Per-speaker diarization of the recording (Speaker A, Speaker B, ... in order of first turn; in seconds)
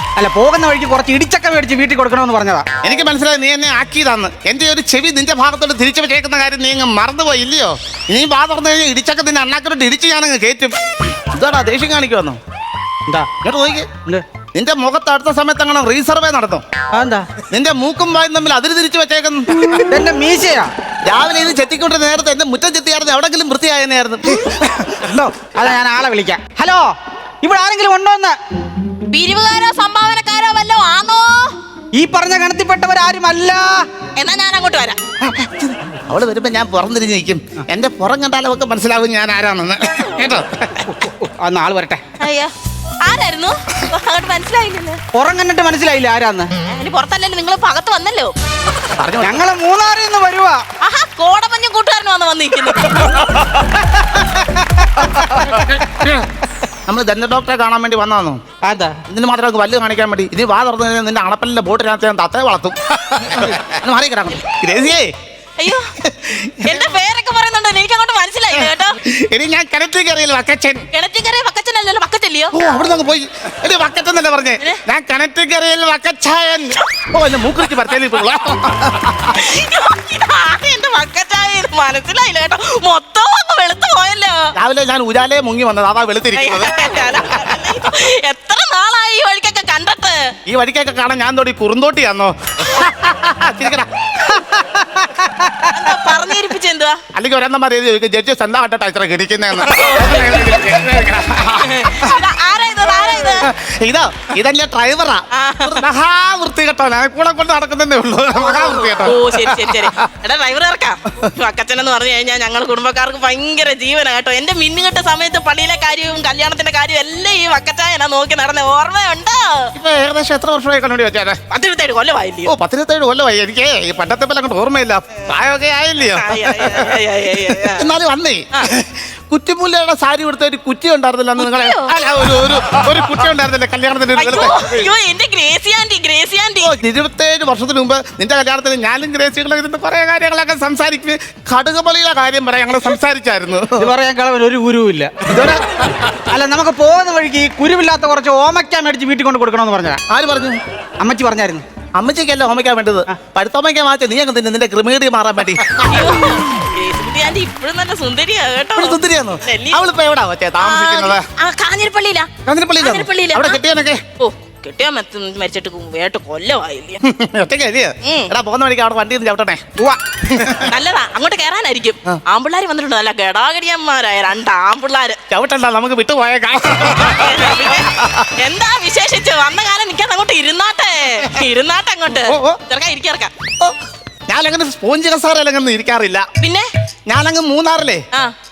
Speaker A: 0.2-2.6, 16.9-17.3, 19.8-20.7, 25.5-26.9, 27.4-28.4, 31.9-33.9, 40.8-42.0, 45.1-46.5, 49.2-50.6, 54.0-55.5, 58.6-59.0, 94.3-95.7, 143.8-145.2, 146.2-150.0, 151.0-151.6
Speaker B: 2.8-12.4, 13.4-13.9, 14.5-16.6, 17.5-19.8, 21.1-25.5, 35.2-40.9, 48.9-49.4, 55.4-56.2, 56.9-58.4, 59.1-65.1, 66.0-66.9, 68.5-70.8, 72.5-79.3, 84.6-86.8, 90.5-94.4, 97.1-102.1, 103.0-110.1, 119.7-121.4, 122.5-134.7, 136.6-143.9, 145.2-145.6, 150.1-150.6, 152.0-156.3, 158.8-161.2, 162.4-164.0, 167.0-169.6, 170.3-170.7, 175.3-178.3, 182.2-182.6, 184.3-186.3, 187.1-188.0
Speaker C: 29.1-31.5, 34.1-35.0, 42.2-45.0, 46.6-48.3, 50.8-53.3, 65.6-65.9, 66.6-69.0, 70.9-72.5, 79.2-84.5, 86.3-90.3, 95.7-97.0, 99.6-100.6, 101.6-103.5, 105.3-105.8, 108.4-119.7, 121.5-122.5, 126.1-127.9, 131.4-131.9, 134.2-136.7, 155.8-159.8, 160.6-163.6, 164.2-167.0, 168.0-168.3, 170.6-175.2, 177.0-183.3, 186.4-186.7